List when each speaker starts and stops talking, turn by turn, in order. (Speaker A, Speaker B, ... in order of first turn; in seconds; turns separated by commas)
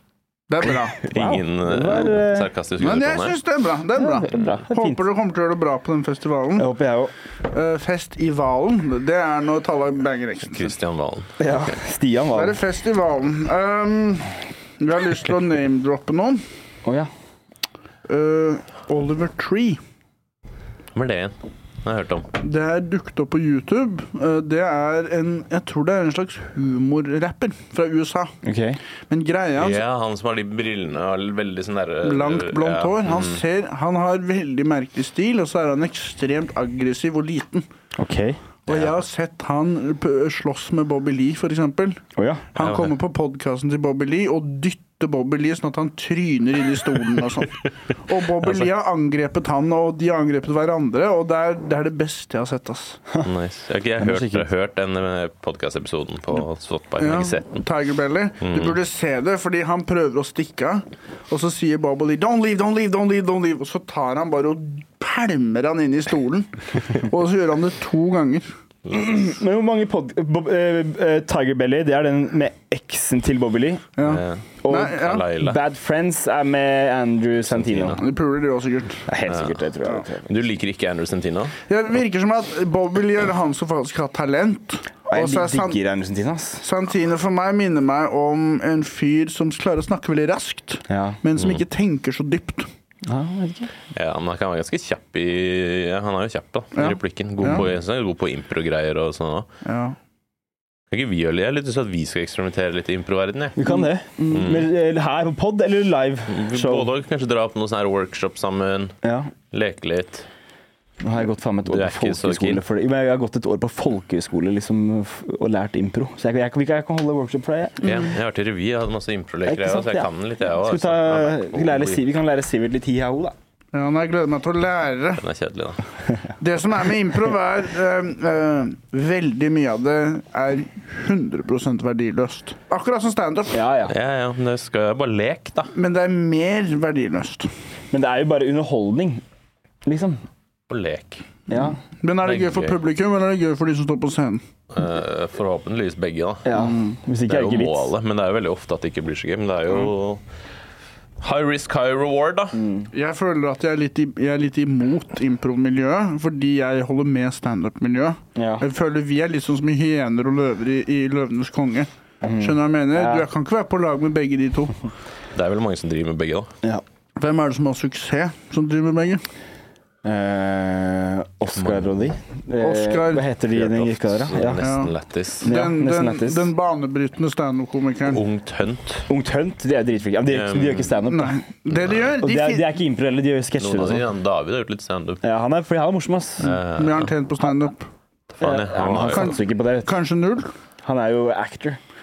Speaker A: 0.5-1.0, Speaker B: 1.0-2.5, Speaker C: 1.0-3.4, Speaker A: 2.8-6.7, Speaker B: 4.0-5.0, Speaker B: 6.6-7.1, Speaker A: 7.5-10.7, Speaker C: 10.5-11.3, Speaker B: 11.4-12.6, Speaker A: 12.3-16.4, Speaker A: 18.1-19.8, Speaker C: 20.9-22.3, Speaker A: 22.4-28.3, Speaker B: 28.4-28.8, Speaker A: 29.1-29.8, Speaker C: 29.6-33.4, Speaker A: 32.0-37.6, Speaker B: 38.0-38.4, Speaker A: 38.6-42.0, Speaker C: 38.7-38.9, Speaker B: 42.1-42.5, Speaker A: 42.5-53.0, Speaker C: 42.6-42.9, Speaker C: 48.4-48.7, Speaker C: 53.2-57.6, Speaker B: 54.0-54.5, Speaker A: 57.0-68.5, Speaker C: 58.4-58.7, Speaker B: 68.9-73.9, Speaker A: 74.0-75.3, Speaker C: 74.0-75.6, Speaker B: 74.6-78.0, Speaker C: 77.5-78.0, Speaker A: 78.0-79.0, Speaker B: 79.1-80.3, Speaker C: 79.2-79.6, Speaker C: 80.2-81.5, Speaker A: 81.7-85.8, Speaker B: 85.1-86.6, Speaker A: 86.6-92.7, Speaker B: 90.9-91.2, Speaker B: 93.1-93.7, Speaker C: 93.9-99.5, Speaker A: 96.7-97.6, Speaker A: 99.6-100.0, Speaker C: 100.9-103.7, Speaker B: 103.6-106.9, Speaker C: 104.3-104.7, Speaker C: 106.3-108.9, Speaker B: 109.0-109.3, Speaker C: 109.5-110.3, Speaker B: 111.0-117.8, Speaker C: 111.7-112.6, Speaker C: 117.8-122.0, Speaker B: 119.5-123.3, Speaker A: 123.7-125.2, Speaker C: 125.2-125.8, Speaker A: 126.4-133.6, Speaker B: 133.5-133.9, Speaker C: 133.9-135.7, Speaker A: 135.7-137.5, Speaker B: 137.9-139.2, Speaker B: 139.8-140.2, Speaker C: 140.7-141.2, Speaker B: 141.5-141.8, Speaker A: 141.8-144.4, Speaker C: 142.2-142.8, Speaker C: 144.7-146.7, Speaker B: 146.4-147.9, Speaker A: 146.6-146.9, Speaker C: 147.3-150.2, Speaker C: 151.2-152.6, Speaker B: 152.5-152.9, Speaker A: 152.9-161.9, Speaker B: 158.3-158.6, Speaker B: 162.2-163.2, Speaker A: 162.4-164.7, Speaker C: 165.3-166.5, Speaker A: 167.2-169.2, Speaker B: 170.0-174.7, Speaker C: 171.5-172.0, Speaker A: 172.6-173.2, Speaker C: 173.5-175.5, Speaker A: 174.6-178.2, Speaker B: 175.4-176.5, Speaker C: 178.1-179.1, Speaker B: 179.1-181.4, Speaker C: 180.3-180.9, Speaker A: 181.0-182.7, Speaker C: 181.7-182.0, Speaker B: 182.2-184.1, Speaker C: 183.6-185.2, Speaker B: 185.2-186.6, Speaker C: 186.4-187.1, Speaker A: 186.7-187.8, Speaker C: 188.3-189.3, Speaker B: 188.4-189.9, Speaker A: 189.1-190.5, Speaker B: 190.8-191.8